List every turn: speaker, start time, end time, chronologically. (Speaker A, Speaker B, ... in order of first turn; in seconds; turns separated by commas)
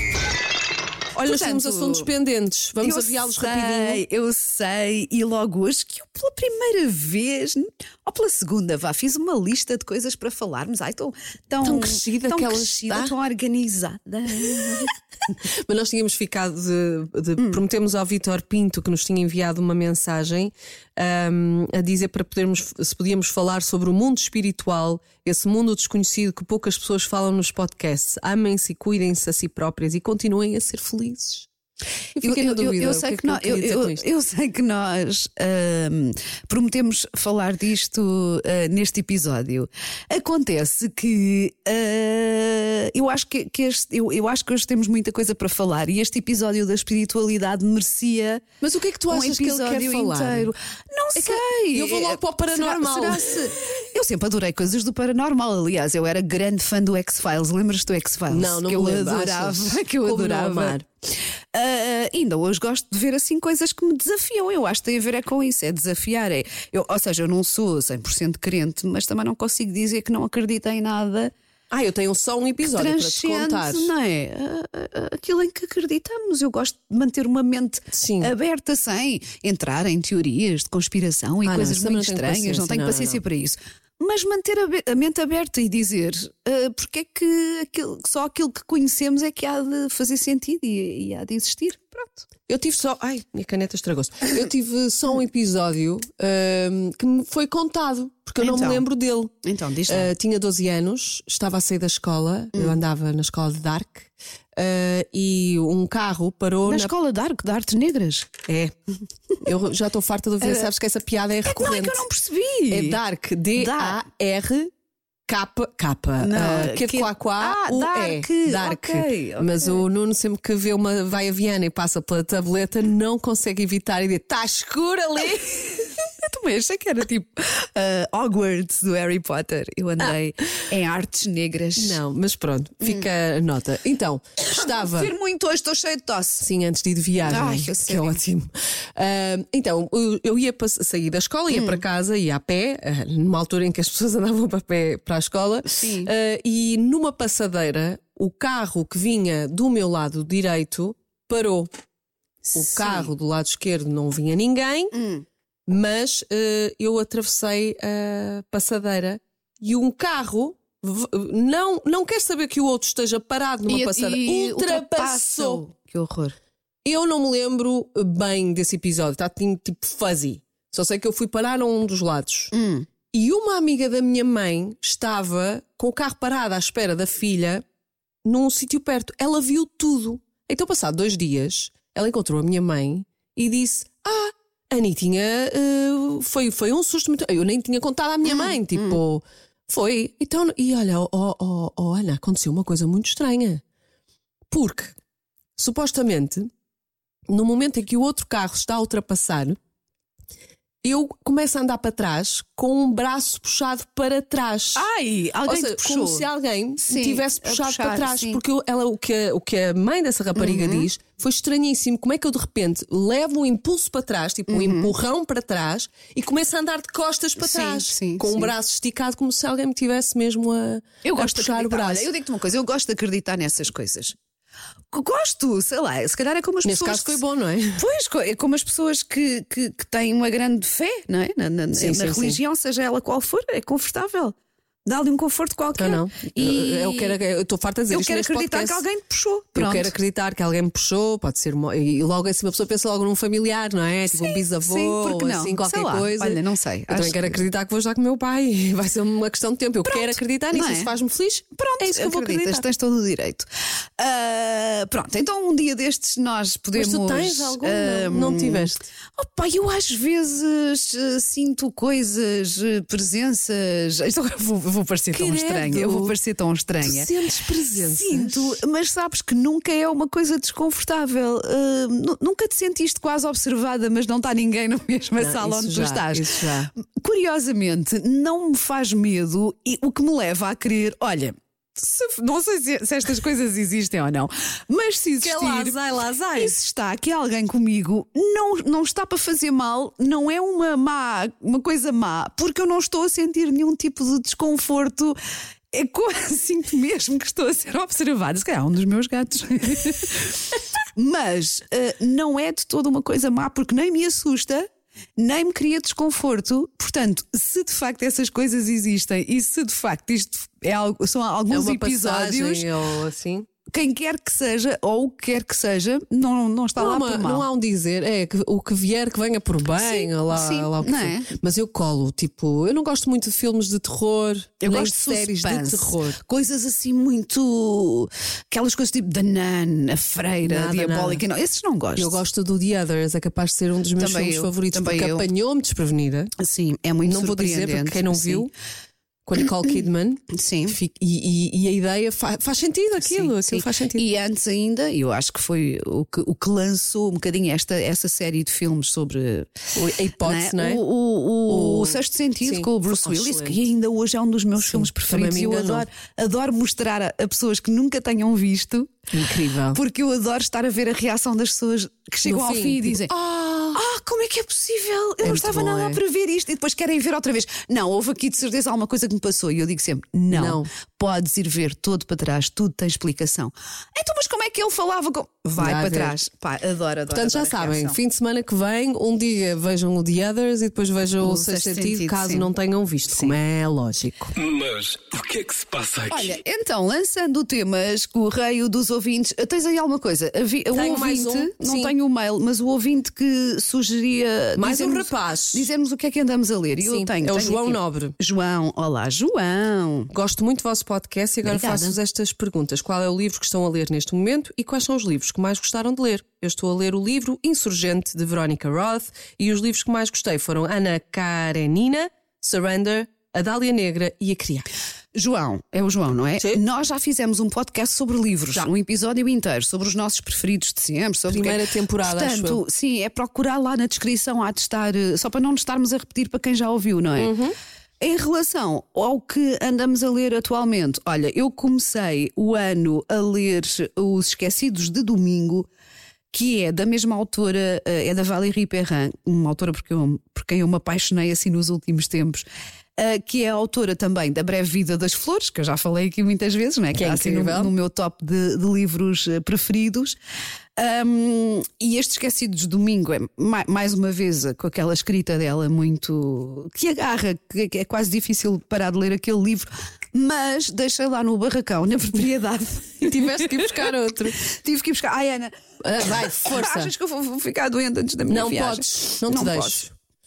Speaker A: 1.1-2.1, Speaker B: 1.2-4.0, Speaker A: 2.8-14.9, Speaker B: 11.6-13.1, Speaker B: 14.4-14.9, Speaker B: 15.4-31.5, Speaker B: 32.1-34.0, Speaker A: 32.2-48.5, Speaker B: 48.6-50.5, Speaker A: 49.1-60.8, Speaker B: 51.1-53.2, Speaker B: 58.3-60.8, Speaker A: 61.5-71.3, Speaker B: 71.7-73.9, Speaker A: 72.6-92.3, Speaker B: 77.9-78.3, Speaker B: 81.4-83.2, Speaker B: 92.5-99.3, Speaker A: 98.4-98.8, Speaker A: 99.4-100.1, Speaker B: 99.9-106.9, Speaker A: 102.5-102.8, Speaker A: 106.7-108.3, Speaker B: 108.5-108.7, Speaker B: 109.4-112.0, Speaker A: 110.4-110.7, Speaker A: 111.4-113.0, Speaker B: 112.7-114.7, Speaker A: 113.5-114.0, Speaker B: 115.3-125.7, Speaker A: 116.2-119.8, Speaker A: 126.0-132.0, Speaker B: 131.8-135.1, Speaker A: 134.4-136.4, Speaker B: 136.4-151.7, Speaker A: 137.2-138.2, Speaker A: 141.5-141.8, Speaker A: 145.6-146.1, Speaker A: 152.4-153.1, Speaker B: 152.5-154.9, Speaker A: 154.9-155.2, Speaker B: 155.7-165.6, Speaker A: 163.7-166.3, Speaker B: 166.8-172.5, Speaker A: 172.5-172.9, Speaker B: 173.1-177.6, Speaker B: 178.2-193.6, Speaker A: 188.4-188.9, Speaker B: 194.5-194.9, Speaker B: 195.6-196.5, Speaker B: 197.3-199.6, Speaker B: 200.8-204.8, Speaker A: 204.7-206.3, Speaker B: 205.4-222.1, Speaker A: 206.8-208.4, Speaker A: 210.3-210.9, Speaker A: 214.5-214.9, Speaker A: 217.4-218.5, Speaker A: 221.0-224.1, Speaker A: 224.9-227.2, Speaker B: 226.6-227.8, Speaker A: 227.7-237.2, Speaker B: 231.8-232.4, Speaker B: 235.8-238.8, Speaker A: 237.9-239.9, Speaker B: 239.5-252.6, Speaker A: 244.1-247.4, Speaker A: 249.8-250.9, Speaker A: 251.6-253.4, Speaker A: 254.0-267.1, Speaker B: 256.7-258.9, Speaker B: 265.1-266.1, Speaker B: 266.8-268.6, Speaker A: 267.7-285.8, Speaker B: 275.2-276.7, Speaker B: 285.2-286.5, Speaker A: 286.4-295.2, Speaker A: 295.7-312.7, Speaker B: 311.5-313.5, Speaker A: 313.7-317.4, Speaker B: 316.8-326.2, Speaker A: 319.8-321.3, Speaker A: 324.6-332.2, Speaker B: 330.4-331.2, Speaker B: 331.9-336.3, Speaker A: 334.0-335.3, Speaker A: 336.4-338.5, Speaker B: 337.0-338.5, Speaker B: 339.2-344.0, Speaker A: 340.3-340.8, Speaker A: 343.0-349.7, Speaker B: 349.7-350.8, Speaker A: 350.2-359.1, Speaker B: 351.5-353.6, Speaker B: 354.6-355.9, Speaker B: 359.1-359.8, Speaker A: 359.7-363.1, Speaker B: 362.2-363.8, Speaker A: 363.7-378.0, Speaker B: 365.2-366.0, Speaker B: 370.3-370.7, Speaker B: 375.6-376.1, Speaker B: 377.1-384.3, Speaker A: 381.2-382.5, Speaker A: 383.1-383.3, Speaker C: 384.4-386.4, Speaker A: 386.1-400.1, Speaker B: 390.7-391.9, Speaker B: 394.6-395.7, Speaker B: 396.8-398.1, Speaker B: 400.1-414.7, Speaker A: 401.4-401.9, Speaker A: 415.1-427.3, Speaker B: 421.3-422.6, Speaker B: 427.2-427.5, Speaker A: 428.0-435.7, Speaker A: 436.3-442.4, Speaker A: 443.0-450.2, Speaker B: 446.9-447.7, Speaker A: 450.8-469.8, Speaker B: 463.0-464.4, Speaker B: 465.8-466.9, Speaker B: 468.3-469.9